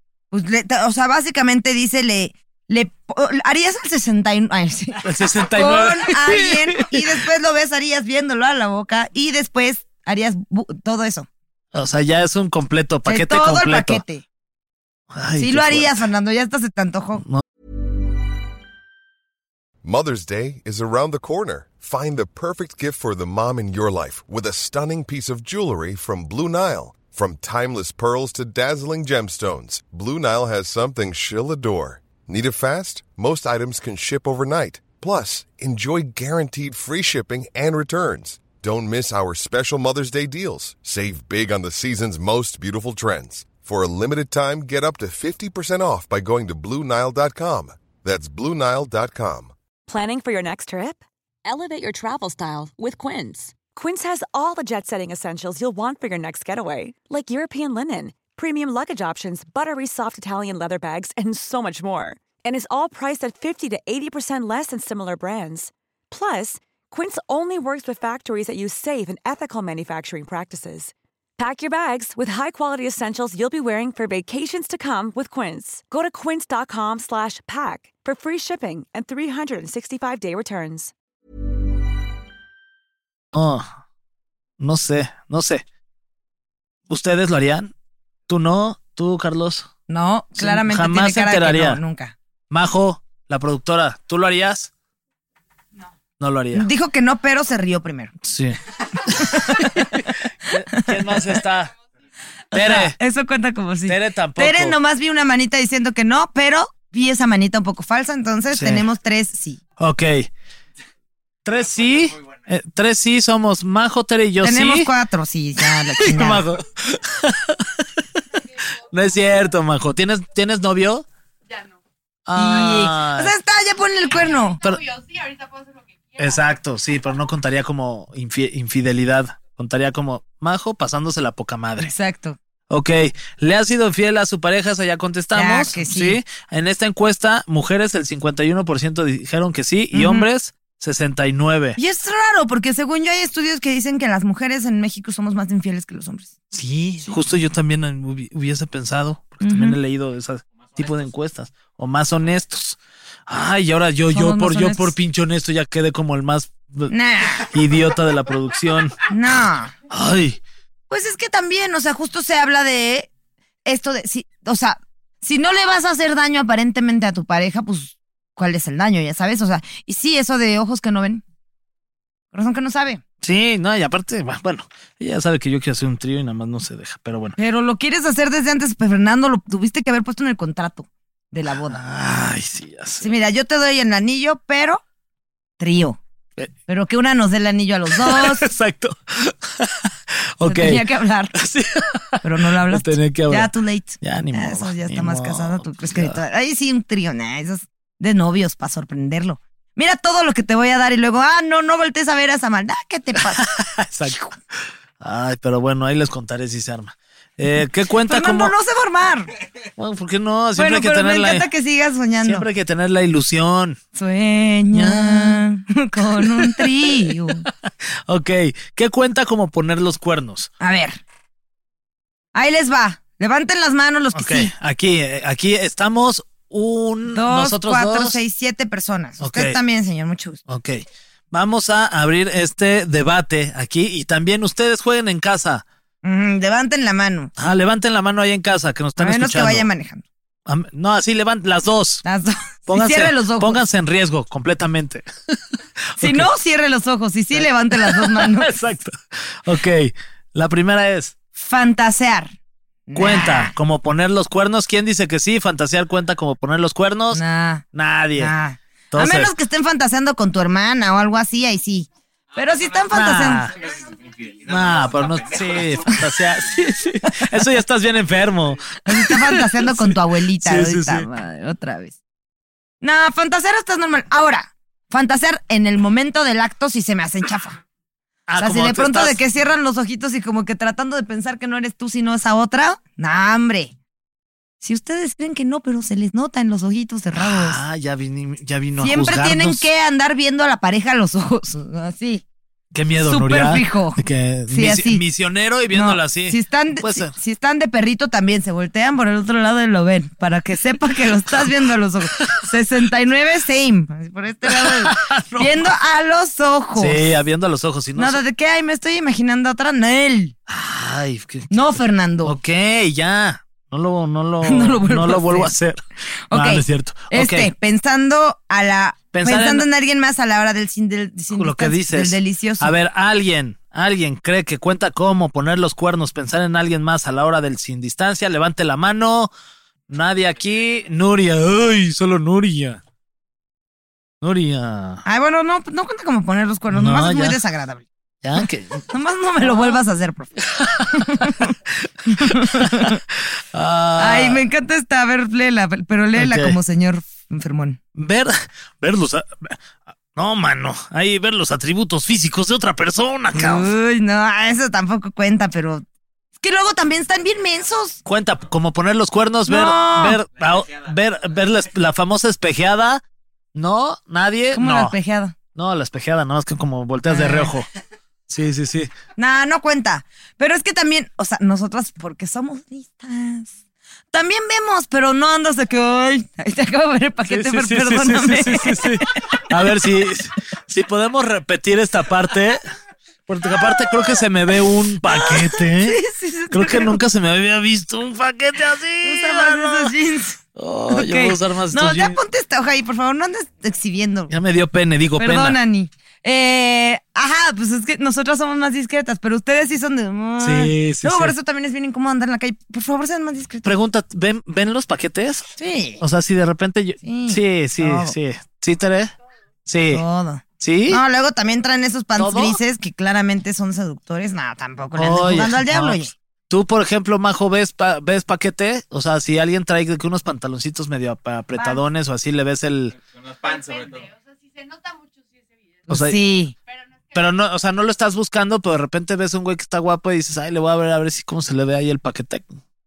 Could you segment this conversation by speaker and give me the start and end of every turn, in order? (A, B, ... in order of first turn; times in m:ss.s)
0:00.3-0:11.3 A
0:05.0-0:07.2 B
0:11.7-0:14.0 B
0:13.1-0:14.2 A
0:15.1-0:16.0 B
0:15.4-0:17.2 A
0:19.8-0:49.5 C
0:49.9-1:20.9 D
1:23.3-1:23.7 B
1:24.6-1:25.6 B
1:26.9-1:27.7 B
1:28.3-1:29.7 B
1:29.9-1:32.1 A
1:30.4-1:31.8 B
1:32.5-1:34.7 B
1:36.2-1:36.7 B
1:36.5-1:38.1 A
1:38.2-1:41.7 B
1:39.2-1:41.4 A
1:42.5-1:43.0 B
1:42.5-1:49.6 A
1:43.9-1:44.8 B
1:48.5-1:48.8 B
1:49.8-1:50.3 B
1:51.4-1:54.9 B
1:54.4-1:56.5 A
1:55.6-1:58.0 B
1:58.8-2:01.1 B
2:02.3-2:03.3 B
2:02.4-2:04.8 A
2:06.2-2:11.9 B
2:11.8-2:12.4 A
2:12.7-2:21.8 B
2:15.4-2:16.2 A
2:19.9-2:20.3 A
2:21.8-2:26.3 A
2:26.5-2:39.0 B
2:29.4-2:29.8 A
2:34.1-2:34.9 A
2:36.9-2:37.5 A
2:39.1-2:39.7 A
2:39.9-2:40.4 B
2:40.9-2:43.1 A
2:43.6-2:51.2 A
2:52.3-2:53.0 A
2:53.2-2:57.4 B
2:57.4-3:01.8 A
3:01.5-3:03.1 B
3:03.0-3:04.8 A
3:05.6-3:06.0 A
3:06.7-3:08.5 A
3:07.9-3:10.8 B
3:10.5-3:11.3 A
3:11.4-3:16.2 B
3:12.2-3:23.5 A
3:23.2-3:28.5 B
3:28.1-3:29.3 A
3:29.8-3:31.5 B
3:30.6-3:32.5 A
3:32.2-3:33.8 B
3:34.0-3:37.5 A
3:34.7-3:35.4 B
3:36.2-3:37.3 B
3:38.1-3:40.5 B
3:40.6-3:41.0 A
3:42.3-3:44.5 A
3:44.1-3:48.2 B
3:47.1-3:50.4 A
3:49.2-3:49.6 B
3:50.5-3:55.6 B
3:56.0-3:57.3 A
3:57.4-3:59.7 B
3:59.0-4:00.0 A
4:00.5-4:02.0 B
4:02.0-4:03.6 A
4:02.7-4:05.4 B
4:06.0-4:06.3 B
4:06.0-4:08.5 A
4:07.4-4:11.2 B
4:11.4-4:12.3 A
4:12.9-4:13.6 A
4:13.0-4:17.2 B
4:17.1-4:17.6 A
4:17.7-4:18.3 B
4:18.2-4:23.5 A
4:18.9-4:19.3 B
4:22.9-4:23.6 B
4:24.4-4:31.1 B
4:28.9-4:31.9 A
4:32.8-4:37.6 A
4:38.3-4:39.2 B
4:38.4-4:43.7 A
4:44.6-4:47.6 A
4:47.2-4:49.7 B
4:48.8-4:52.2 A
4:52.7-4:57.2 B
4:53.0-4:55.0 A
4:55.7-5:07.1 A
5:02.2-5:02.5 B
5:04.4-5:05.7 B
5:06.8-5:08.2 B
5:08.0-5:10.4 A
5:10.5-5:11.6 B
5:11.5-5:12.4 A
5:12.2-5:15.8 B
5:14.4-5:15.5 A
5:16.3-5:22.8 A
5:16.3-5:17.5 B
5:19.1-5:19.7 B
5:21.3-5:29.3 B
5:29.9-5:32.8 B
5:34.2-5:35.0 B
5:35.1-5:37.8 A
5:36.7-5:37.4 B
5:38.2-5:38.8 B
5:38.9-5:41.5 A
5:40.4-5:44.4 B
5:42.1-5:43.0 A
5:44.0-5:47.8 A
5:46.2-5:46.6 B
5:48.0-5:49.6 B
5:50.1-5:53.7 B
5:53.3-5:55.8 A
5:56.4-5:58.0 A
5:58.0-6:03.0 B
5:59.5-6:00.2 A
6:03.6-6:05.0 B
6:04.5-6:05.4 A
6:05.6-6:07.7 B
6:07.1-6:07.5 A
6:08.3-6:08.9 B
6:09.2-6:13.5 A
6:14.1-6:19.2 A
6:17.3-6:22.6 B
6:23.3-6:30.0 B
6:23.5-6:24.2 A
6:25.1-6:27.0 A
6:29.0-6:30.4 A
6:30.6-6:32.2 B
6:30.9-6:34.3 A
6:34.3-6:35.6 B
6:35.2-6:43.7 A
6:40.4-6:41.4 B
6:43.6-6:45.5 B
6:45.6-6:46.0 A
6:46.0-6:49.1 B
6:47.0-6:48.2 A
6:49.7-6:50.0 B
6:49.9-6:56.1 A
6:50.6-6:51.0 B
6:52.2-6:52.6 B
6:55.0-7:03.0 B
7:01.6-7:01.8 A
7:05.9-7:06.2 B
7:05.9-7:06.6 A
7:07.1-7:12.6 B